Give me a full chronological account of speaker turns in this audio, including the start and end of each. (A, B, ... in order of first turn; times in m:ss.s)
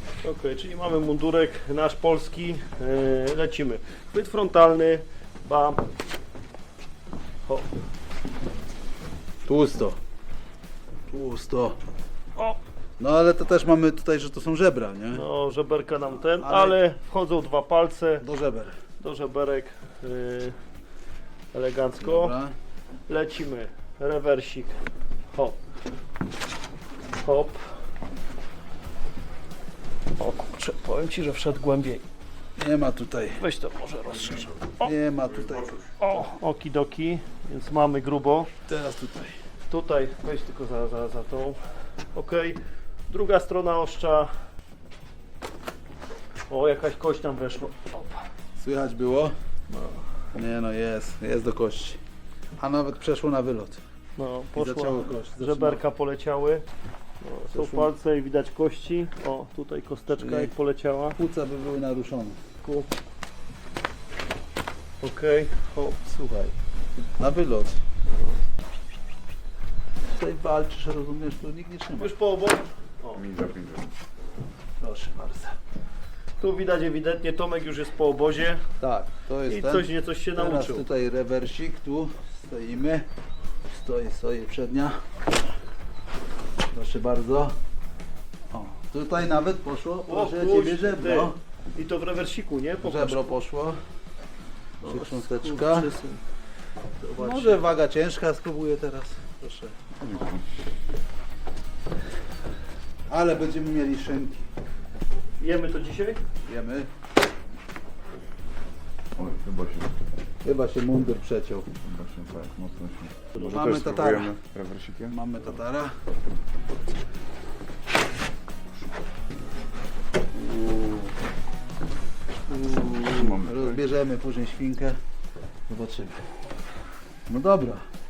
0:00.2-0:05.8 A
0:09.4-0:10.0 B
0:11.1-0:11.8 B
0:13.0-0:15.2 B
0:15.1-0:18.2 A
0:16.4-0:16.8 B
0:18.2-0:18.8 B
0:19.0-0:20.5 A
0:21.5-0:22.4 A
0:22.0-0:22.5 B
0:23.1-0:25.6 A
0:27.2-0:27.8 A
0:30.2-0:32.0 A
0:32.6-0:33.4 B
0:33.4-0:34.9 A
0:34.8-0:35.9 B
0:36.0-0:38.5 A
0:38.7-0:39.4 B
0:39.7-0:44.3 A
0:46.5-0:48.3 A
0:48.6-0:49.3 B
0:49.7-0:50.0 A
0:50.3-0:52.0 B
0:52.6-0:53.8 B
0:54.2-0:56.6 A
0:54.5-0:55.8 B
0:57.2-1:01.2 A
0:57.5-0:57.9 B
1:00.1-1:00.5 B
1:01.1-1:02.8 B
1:05.0-1:05.6 A
1:05.7-1:06.5 B
1:07.2-1:07.8 B
1:10.1-1:12.1 B
1:12.0-1:13.2 A
1:13.1-1:13.9 C
1:14.8-1:15.6 B
1:16.4-1:18.7 A
1:18.8-1:23.1 B
1:19.4-1:20.9 A
1:23.7-1:25.0 B
1:26.7-1:27.5 B
1:28.5-1:31.4 B
1:30.1-1:33.3 A
1:32.8-1:33.8 B
1:34.8-1:35.9 B
1:34.8-1:36.2 A
1:37.0-1:37.7 A
1:37.1-1:39.7 B
1:40.0-1:40.4 C
1:43.1-1:44.5 B
1:45.4-1:46.2 A
1:46.4-1:46.9 B
1:49.1-1:49.9 C
1:50.4-1:51.7 B
1:51.8-1:55.2 C
1:53.4-1:54.3 B
1:55.1-1:56.0 B
2:00.3-2:01.1 B
2:02.5-2:05.0 B
2:03.1-2:03.9 C
2:05.7-2:06.4 B
2:07.3-2:07.9 B